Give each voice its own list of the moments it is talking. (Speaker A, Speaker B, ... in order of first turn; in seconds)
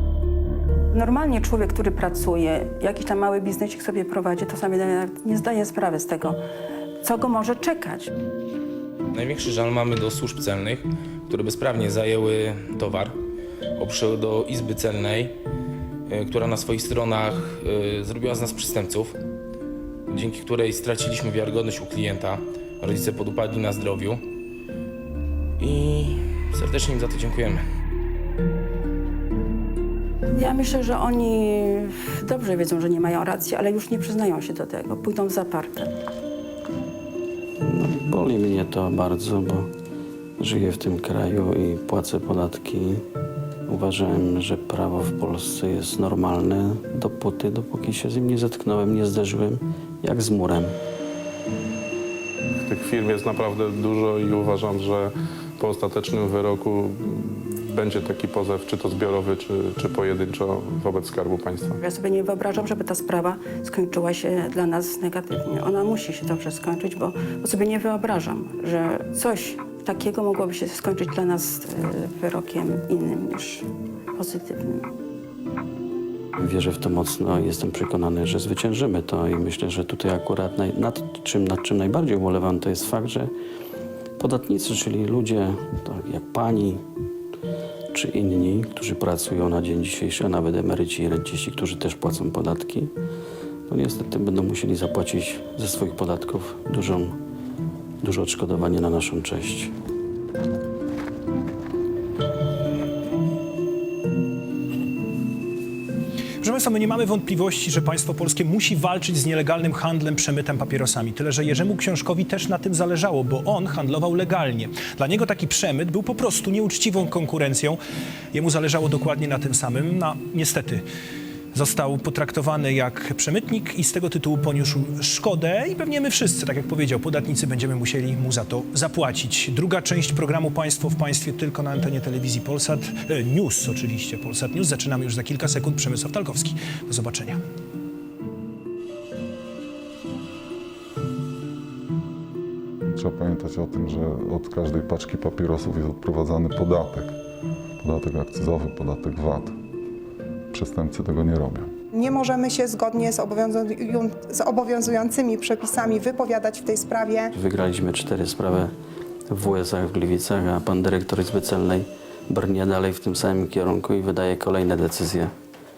Speaker A: 0.9-6.4, 7.0-8.1, 30.4-35.9, 61.8-73.7, 74.2-74.9
Speaker B: 9.1-13.2, 13.8-15.3, 16.1-19.1, 20.1-24.2, 25.6-27.6
Speaker C: 37.6-39.7, 40.4-43.0, 43.7-50.8, 76.4-83.3, 84.2-86.8, 87.9-92.9, 93.7-97.2, 98.0-99.7, 157.3-158.7, 159.3-165.3
Speaker D: 52.6-61.8
Speaker E: 106.4-117.8, 118.3-120.8, 121.5-137.4
Speaker F: 143.0-147.2, 147.8-149.6, 150.5-151.7
Speaker G: 151.9-157.3